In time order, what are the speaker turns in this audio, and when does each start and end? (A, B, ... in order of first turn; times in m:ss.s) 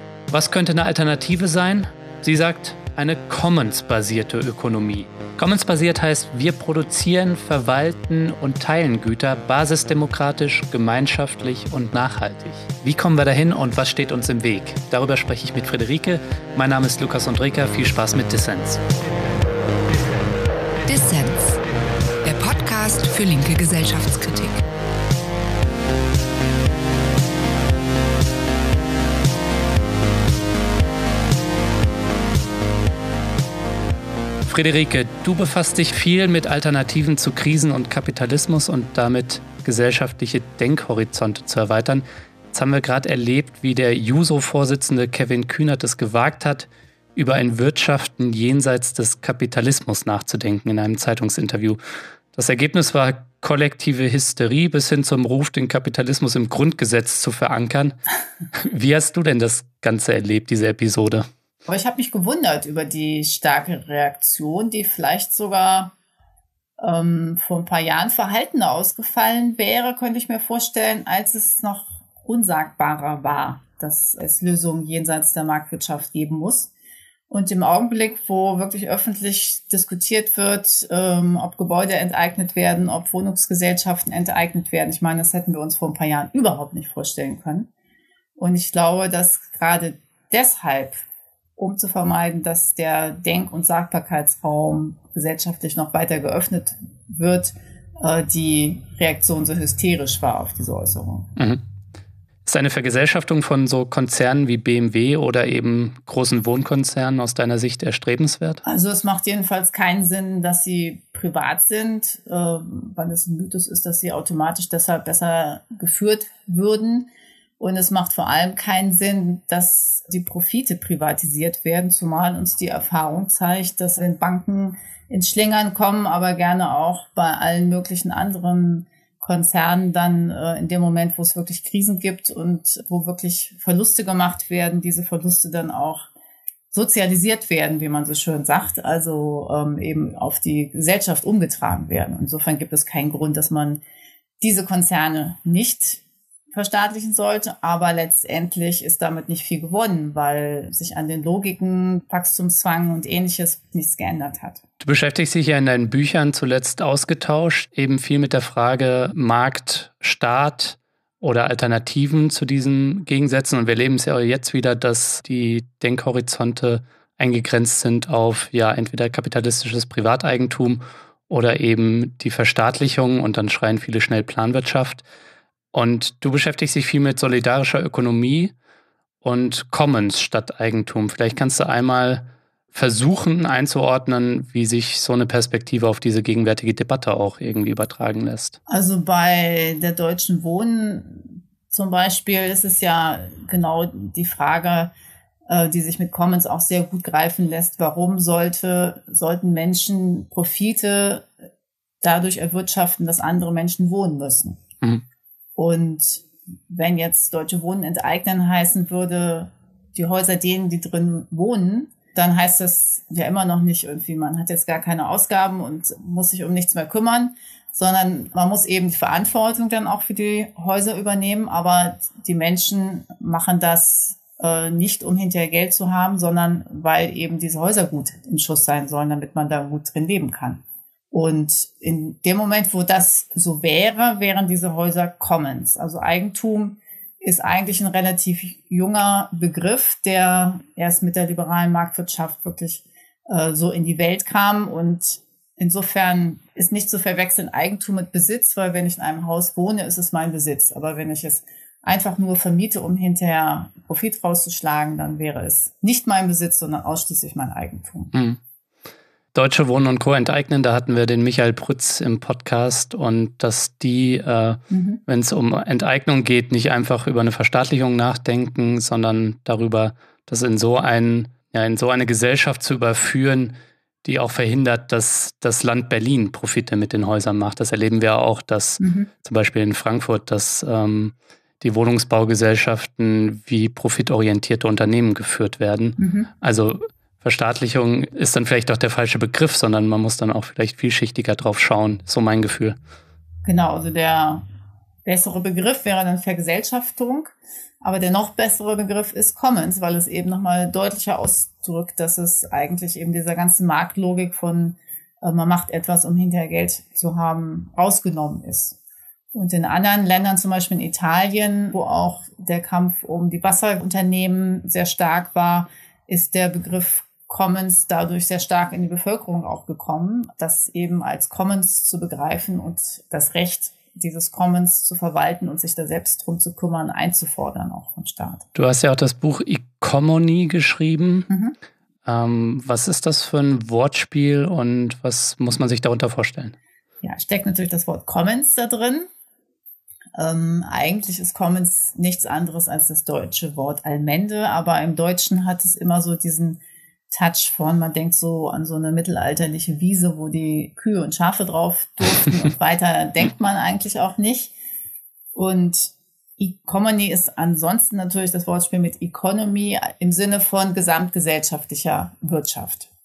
0:00.3-0:18.8 A
0:20.9-0:21.6 B
0:22.2-0:24.6 B
0:34.5-0:51.8 A
0:52.3-0:58.0 A
0:58.6-1:01.3 A
1:01.7-1:05.9 C
1:06.8-1:16.7 C
1:17.3-1:27.7 C
1:28.4-1:31.0 C
1:31.6-1:41.3 C
1:41.4-1:41.6 A
1:42.4-1:48.6 A
1:48.6-1:57.1 C
1:57.6-2:16.1 C
2:16.7-2:23.8 C
2:24.4-2:34.6 C
2:34.8-2:55.0 A
2:55.7-2:58.5 A
2:59.2-3:08.6 A
3:08.7-3:14.9 C
3:15.5-3:21.3 C
3:22.0-3:24.6 C
3:25.6-4:18.1 C
4:18.1-4:18.4 A
4:19.3-4:52.8 A
4:24.7-4:25.0 C
4:38.8-4:39.1 C
4:46.0-4:46.3 C
4:53.4-4:54.4 C
4:55.0-5:08.8 C
5:09.3-5:28.4 C
5:28.6-5:31.3 A
5:31.3-5:31.6 C
5:32.1-5:36.6 A
5:37.0-5:39.1 C
5:40.2-5:54.5 C
5:55.3-6:02.9 C